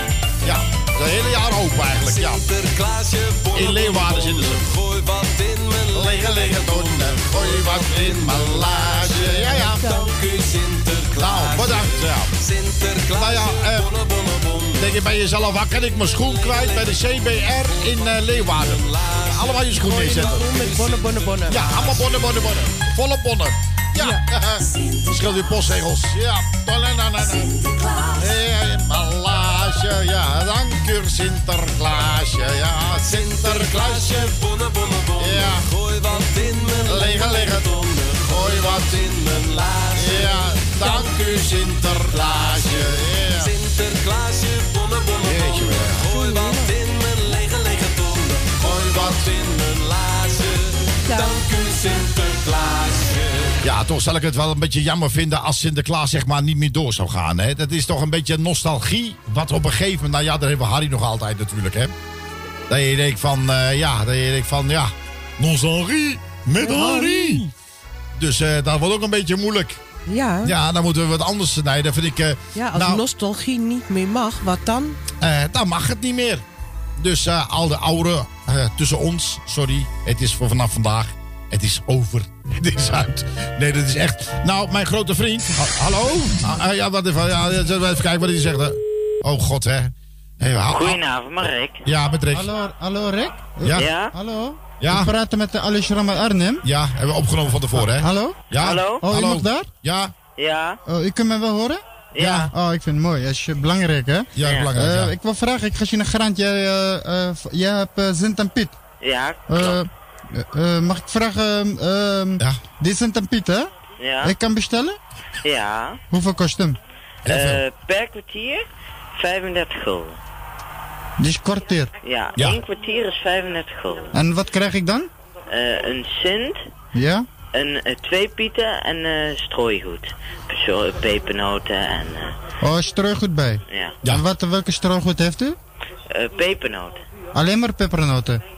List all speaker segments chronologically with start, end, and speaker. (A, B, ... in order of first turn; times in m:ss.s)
0:00.4-0:02.4 A
0:01.9-0:15.0 B
0:03.5-0:04.7 A
0:05.9-0:09.8 A
0:09.7-0:10.1 C
0:11.2-0:12.3 A
0:13.2-0:13.9 A
0:14.8-0:20.6 A
0:15.9-0:22.1 B
0:19.8-0:21.8 C
0:21.5-0:34.3 A
0:24.0-0:24.2 C
0:33.0-0:53.6 B
0:35.2-0:35.7 A
0:36.9-0:39.0 A
0:40.0-0:43.5 A
0:45.2-0:46.1 A
0:46.1-0:46.7 C
0:48.6-0:49.3 A
0:51.1-0:51.4 C
0:53.6-1:01.9 A
1:02.7-1:07.4 A
1:06.6-1:07.5 C
1:08.2-1:09.8 A
1:10.1-1:10.5 C
1:10.4-1:13.0 A
1:12.6-1:15.0 C
1:15.2-1:16.4 A
1:17.0-1:32.5 A
1:30.7-1:31.8 D
1:32.3-1:36.6 E
1:33.6-1:33.9 A
1:33.7-1:34.1 D
1:34.8-1:35.1 A
1:36.6-1:40.1 A
1:37.8-1:39.7 E
1:38.6-1:39.0 D
1:40.4-1:40.8 D
1:40.9-1:41.8 E
1:42.1-1:42.5 D
1:42.2-1:42.5 A
1:42.5-1:48.8 E
1:44.4-1:45.1 A
1:44.4-1:44.7 D
1:49.0-1:49.7 D
1:49.5-1:53.7 E
1:54.0-1:54.3 D
1:54.2-1:55.0 E
1:55.4-1:56.0 D
1:56.1-1:56.8 E
1:57.2-1:57.6 A
1:57.2-1:58.6 D
1:59.2-2:00.2 D
2:01.2-2:01.9 E
2:02.0-2:04.1 D
2:04.1-2:05.1 E
2:05.5-2:06.6 D
2:06.9-2:07.3 E
2:07.5-2:12.4 D
2:12.6-2:15.6 E
2:13.7-2:14.0 D
2:16.1-2:17.0 D
2:17.3-2:18.4 E